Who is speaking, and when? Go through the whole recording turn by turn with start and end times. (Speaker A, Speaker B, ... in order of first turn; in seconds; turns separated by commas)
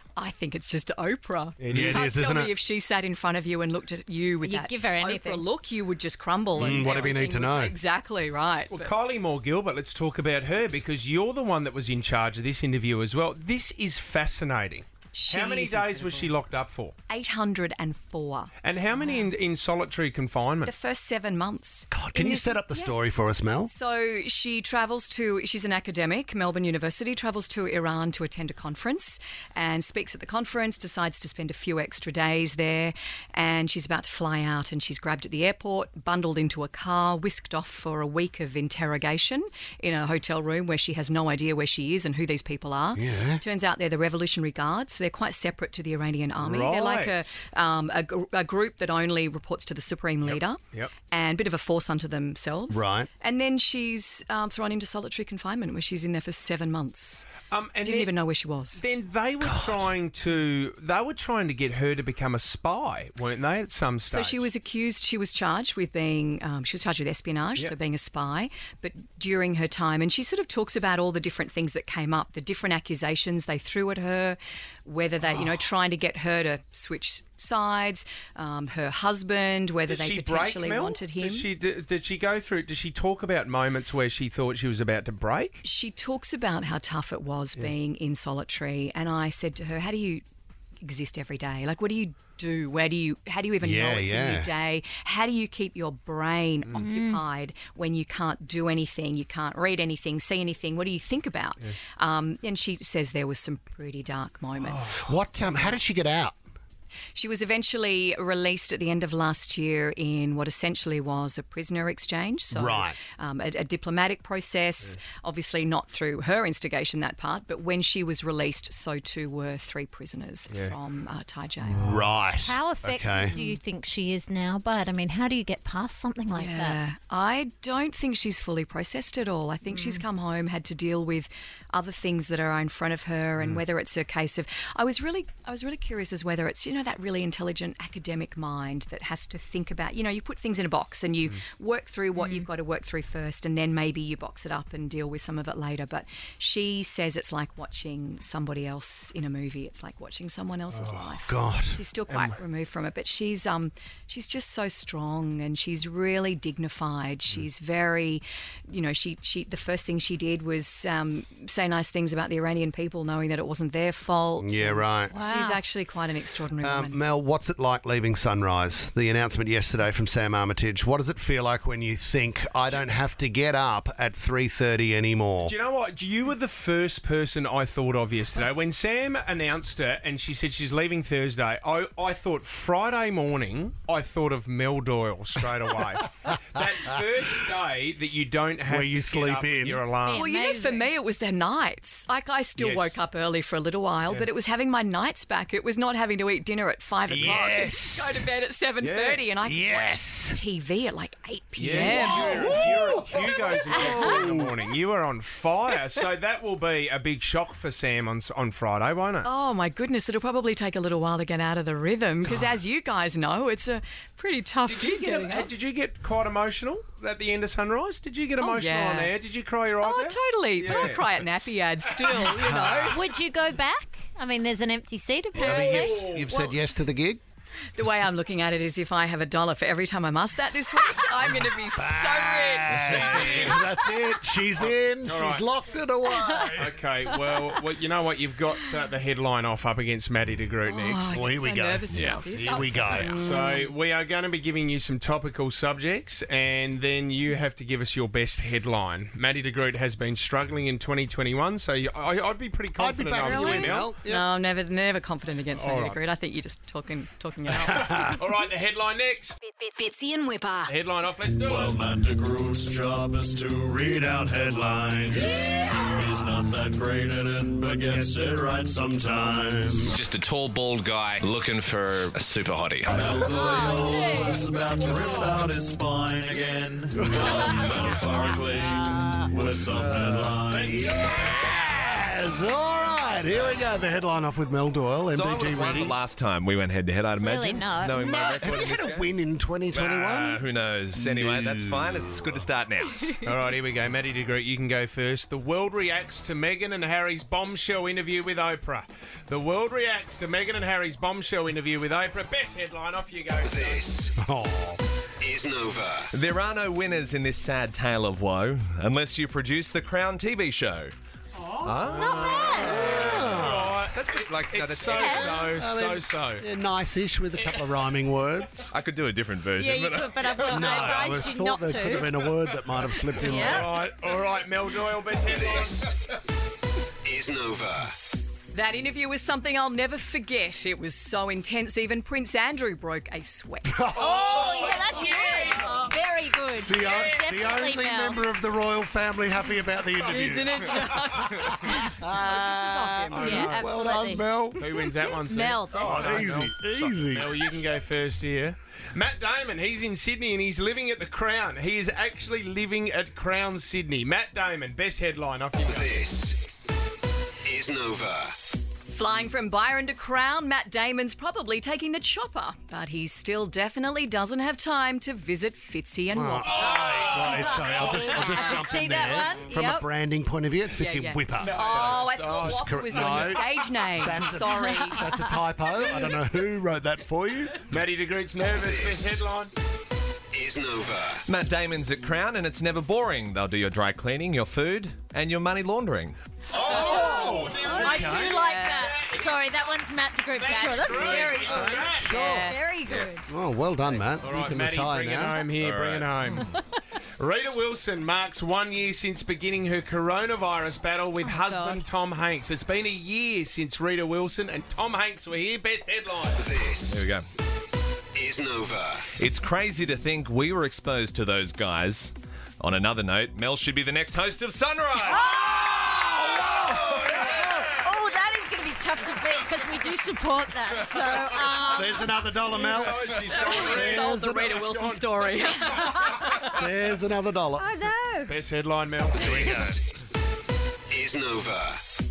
Speaker A: 0.2-8.9, Speaker B: 1.6-2.1, Speaker C: 1.7-2.5, Speaker D: 4.4-5.5, Speaker C: 6.6-7.8, Speaker B: 8.7-16.9, Speaker A: 15.1-16.4, Speaker A: 17.1-19.3, Speaker B: 18.6-20.7, Speaker A: 20.6-23.0, Speaker C: 21.9-23.7, Speaker A: 23.6-57.3, Speaker C: 43.0-43.4, Speaker B: 46.4-47.2, Speaker B: 50.2-50.9, Speaker C: 52.7-53.1, Speaker B: 57.5-58.1, Speaker A: 57.8-58.8, Speaker B: 58.7-64.5, Speaker C: 59.4-59.9, Speaker A: 64.1-81.5, Speaker B: 79.9-85.6, Speaker A: 85.6-90.2, Speaker A: 90.8-105.0, Speaker C: 93.6-94.5, Speaker D: 96.8-97.2, Speaker B: 104.6-105.7, Speaker C: 105.0-106.4, Speaker A: 107.1-122.0, Speaker C: 112.5-113.0, Speaker C: 121.7-123.3, Speaker D: 122.4-126.8, Speaker A: 123.3-123.6, Speaker A: 126.3-167.0, Speaker D: 129.7-130.0, Speaker C: 151.3-151.8, Speaker C: 164.4-165.1, Speaker D: 165.1-165.6, Speaker C: 166.6-175.5, Speaker B: 175.4-190.2, Speaker C: 188.7-189.8, Speaker D: 190.0-190.9, Speaker A: 190.2-203.2, Speaker B: 192.6-193.0, Speaker C: 197.1-198.3, Speaker B: 198.8-199.2, Speaker C: 199.4-200.4, Speaker B: 201.6-209.3, Speaker C: 201.7-204.5, Speaker A: 203.7-204.2, Speaker A: 209.2-215.5, Speaker B: 214.7-221.1, Speaker A: 218.4-219.2, Speaker A: 219.8-223.0, Speaker B: 222.2-222.8, Speaker D: 222.9-225.9, Speaker B: 225.4-226.4, Speaker C: 225.4-227.2, Speaker A: 227.8-233.4, Speaker C: 231.7-236.8, Speaker B: 232.7-233.7, Speaker B: 234.6-235.5, Speaker B: 236.5-241.2, Speaker A: 240.7-243.7, Speaker C: 241.0-243.5, Speaker E: 241.9-242.2, Speaker B: 242.5-253.9, Speaker C: 252.8-254.3, Speaker A: 253.2-258.2, Speaker B: 255.5-256.0, Speaker C: 257.5-258.2, Speaker B: 258.1-259.4, Speaker D: 259.5-260.7, Speaker B: 260.7-261.8, Speaker F: 261.4-270.0, Speaker C: 263.7-266.1, Speaker C: 267.5-270.0, Speaker E: 269.9-273.0, Speaker F: 272.9-281.0, Speaker A: 273.2-274.5, Speaker C: 276.9-278.1, Speaker C: 279.5-286.0, Speaker B: 280.5-281.1, Speaker E: 285.1-289.1, Speaker D: 287.2-288.3, Speaker C: 287.9-292.4, Speaker E: 289.7-293.1, Speaker B: 293.2-304.1, Speaker C: 304.2-304.8, Speaker G: 305.2-306.1, Speaker E: 306.1-310.9, Speaker B: 311.4-316.4, Speaker E: 311.6-315.0, Speaker D: 311.9-312.9, Speaker C: 312.5-313.9, Speaker C: 314.9-318.7, Speaker D: 314.9-315.4, Speaker B: 317.4-317.8, Speaker E: 318.7-320.9, Speaker D: 319.6-322.1, Speaker C: 320.4-323.9, Speaker B: 323.2-326.0, Speaker E: 323.2-323.6, Speaker D: 323.3-323.6, Speaker G: 327.1-327.9, Speaker A: 328.5-334.0, Speaker C: 333.7-334.2, Speaker D: 334.0-338.3, Speaker B: 334.0-335.8, Speaker C: 336.6-341.0, Speaker A: 340.0-343.7, Speaker C: 341.8-344.7, Speaker B: 343.1-343.7, Speaker D: 343.2-344.3, Speaker B: 344.2-356.2, Speaker A: 345.1-346.2, Speaker C: 345.7-347.5, Speaker G: 357.5-358.4, Speaker A: 358.9-367.0, Speaker C: 366.1-377.7, Speaker B: 366.4-368.7, Speaker D: 368.0-369.9, Speaker A: 370.7-375.1, Speaker B: 371.4-373.4, Speaker B: 377.7-379.5, Speaker G: 380.3-381.2, Speaker E: 381.3-387.4, Speaker B: 386.5-389.4, Speaker C: 386.6-388.4, Speaker D: 387.6-391.4, Speaker A: 387.7-389.0, Speaker B: 390.4-392.2, Speaker A: 390.5-392.6, Speaker E: 390.9-392.2, Speaker C: 391.0-392.6, Speaker D: 392.2-393.3, Speaker E: 392.9-393.3, Speaker C: 393.3-395.4, Speaker B: 394.2-396.5, Speaker E: 395.6-396.5, Speaker D: 396.2-396.6, Speaker B: 397.2-406.6, Speaker D: 401.2-401.8, Speaker E: 406.7-407.2, Speaker G: 408.2-409.1, Speaker E: 409.1-415.3, Speaker A: 415.1-419.5, Speaker D: 418.9-421.9, Speaker C: 421.7-424.7, Speaker B: 422.4-425.9, Speaker A: 423.1-426.5, Speaker C: 426.4-427.7, Speaker D: 427.7-428.3, Speaker B: 428.3-429.8, Speaker C: 429.2-429.8, Speaker G: 430.9-431.8